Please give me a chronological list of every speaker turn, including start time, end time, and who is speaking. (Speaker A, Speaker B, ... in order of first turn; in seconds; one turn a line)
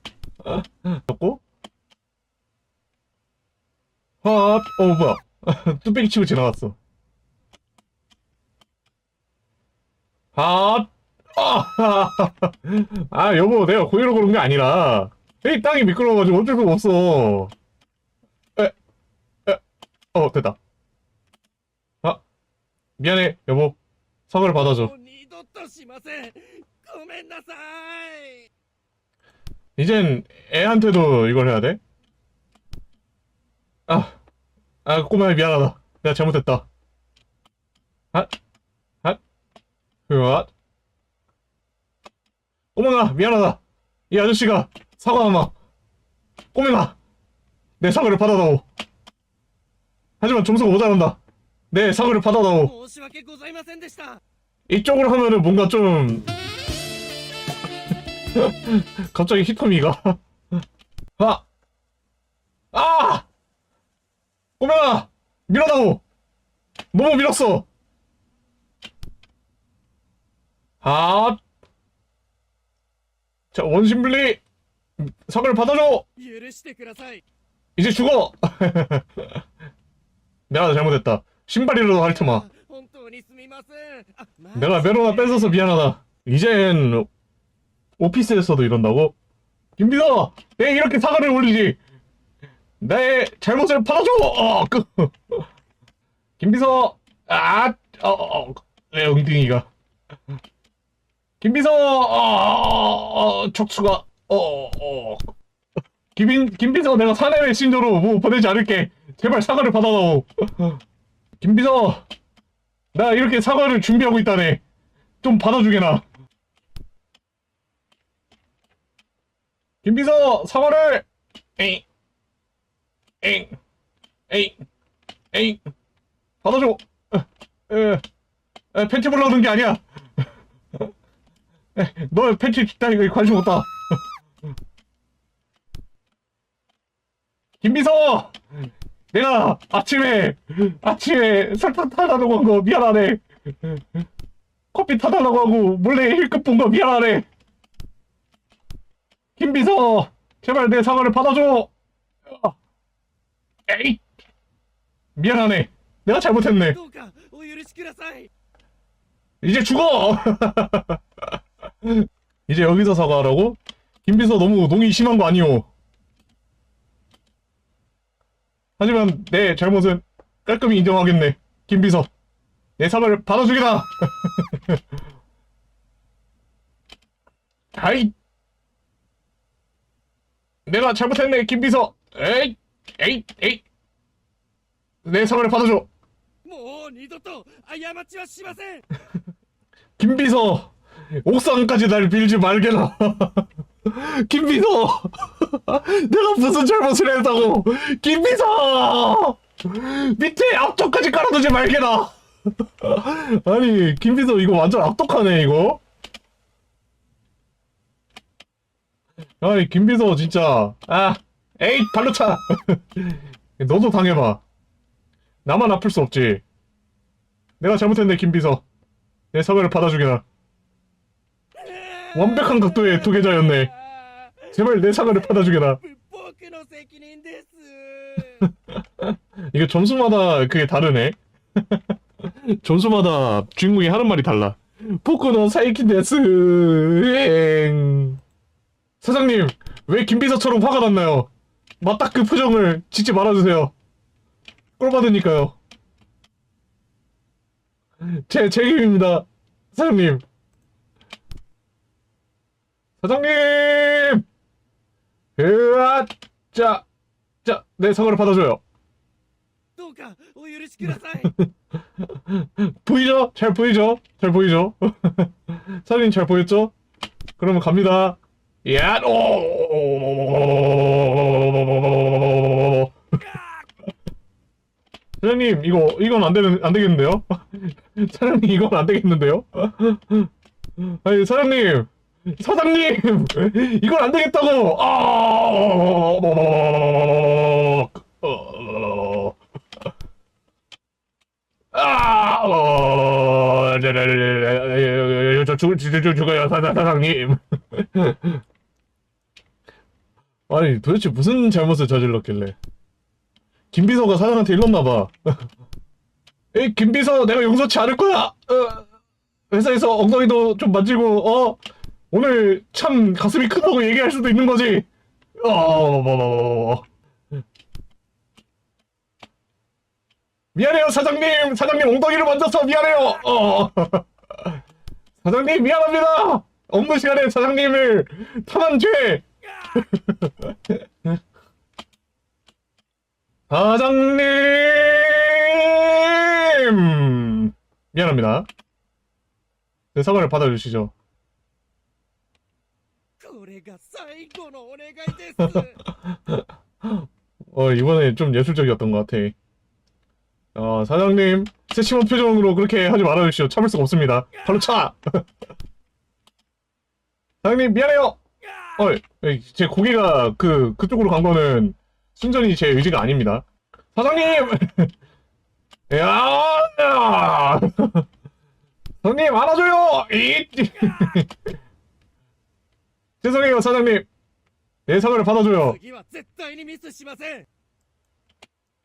Speaker A: 0.4-1.4
Speaker A: 4.2-6.8
Speaker A: 10.3-17.5
Speaker A: 20.1-20.6
Speaker A: 23.0-23.8
Speaker A: 24.3-24.9
Speaker B: 24.5-28.5
Speaker A: 29.8-31.8
Speaker A: 33.9-34.2
Speaker A: 34.8-36.7
Speaker A: 40.1-40.5
Speaker A: 42.7-45.5
Speaker A: 46.5-47.0
Speaker A: 47.8-48.6
Speaker A: 50.2-51.2
Speaker A: 51.7-52.7
Speaker B: 52.5-54.2
Speaker A: 54.7-56.3
Speaker A: 58.3-60.2
Speaker A: 61.2-61.5
Speaker A: 62.7-63.3
Speaker A: 64.6-66.0
Speaker A: 66.9-67.7
Speaker A: 70.8-71.4
Speaker A: 73.5-74.4
Speaker A: 75.0-76.0
Speaker B: 76.2-77.2
Speaker A: 77.8-79.4
Speaker A: 80.5-82.4
Speaker B: 82.0-85.7
Speaker A: 84.5-87.1
Speaker A: 88.0-89.2
Speaker A: 89.8-91.8
Speaker A: 92.8-95.5
Speaker A: 96.4-99.7
Speaker A: 101.4-105.3
Speaker A: 106.1-110.8
Speaker A: 111.4-112.0
Speaker A: 112.9-114.6
Speaker A: 115.2-116.0
Speaker A: 119.8-121.0
Speaker A: 121.6-121.8
Speaker A: 123.2-123.6
Speaker A: 124.3-124.6
Speaker A: 125.3-125.6
Speaker A: 126.4-128.0
Speaker A: 128.7-129.8
Speaker A: 131.8-134.0
Speaker A: 137.6-138.4
Speaker A: 139.1-143.8
Speaker A: 144.7-147.2
Speaker A: 149.3-151.7
Speaker A: 152.3-152.6
Speaker A: 153.7-154.0
Speaker A: 155.2-156.8
Speaker B: 156.7-158.3
Speaker A: 159.4-161.0
Speaker A: 161.8-165.7
Speaker A: 168.8-172.1
Speaker A: 172.8-174.8
Speaker A: 177.7-178.1
Speaker A: 180.7-183.6
Speaker A: 185.0-185.9
Speaker B: 186.4-188.8
Speaker A: 190.0-202.2
Speaker A: 202.8-205.8
Speaker A: 209.4-214.4
Speaker A: 215.4-216.4
Speaker A: 217.6-218.6
Speaker A: 219.3-220.2
Speaker B: 221.5-228.5
Speaker A: 222.1-223.7
Speaker A: 224.5-225.8
Speaker A: 229.0-238.2
Speaker A: 239.0-241.3
Speaker A: 241.8-243.7
Speaker A: 244.8-245.6
Speaker A: 248.0-250.2
Speaker A: 253.0-254.2
Speaker A: 255.4-256.9
Speaker A: 257.4-258.6
Speaker B: 259.8-261.3
Speaker A: 260.9-266.7
Speaker A: 267.4-273.0
Speaker B: 273.2-273.6
Speaker A: 275.2-280.3
Speaker A: 280.8-289.4
Speaker A: 291.7-298.4
Speaker A: 300.5-302.6
Speaker A: 303.7-305.4
Speaker A: 306.5-308.9
Speaker A: 309.5-311.6
Speaker A: 312.1-314.9
Speaker A: 315.4-316.9
Speaker A: 320.5-324.6
Speaker A: 325.2-331.2
Speaker A: 333.5-338.5
Speaker A: 339.9-340.9
Speaker B: 343.2-345.8
Speaker A: 346.0-349.3
Speaker A: 350.5-355.2
Speaker B: 354.3-354.7
Speaker A: 357.4-358.2
Speaker B: 358.4-358.8
Speaker A: 358.8-364.9
Speaker A: 365.9-368.1
Speaker A: 369.0-371.3
Speaker B: 370.8-371.2
Speaker A: 373.2-374.1
Speaker A: 374.9-375.8
Speaker B: 375.6-377.4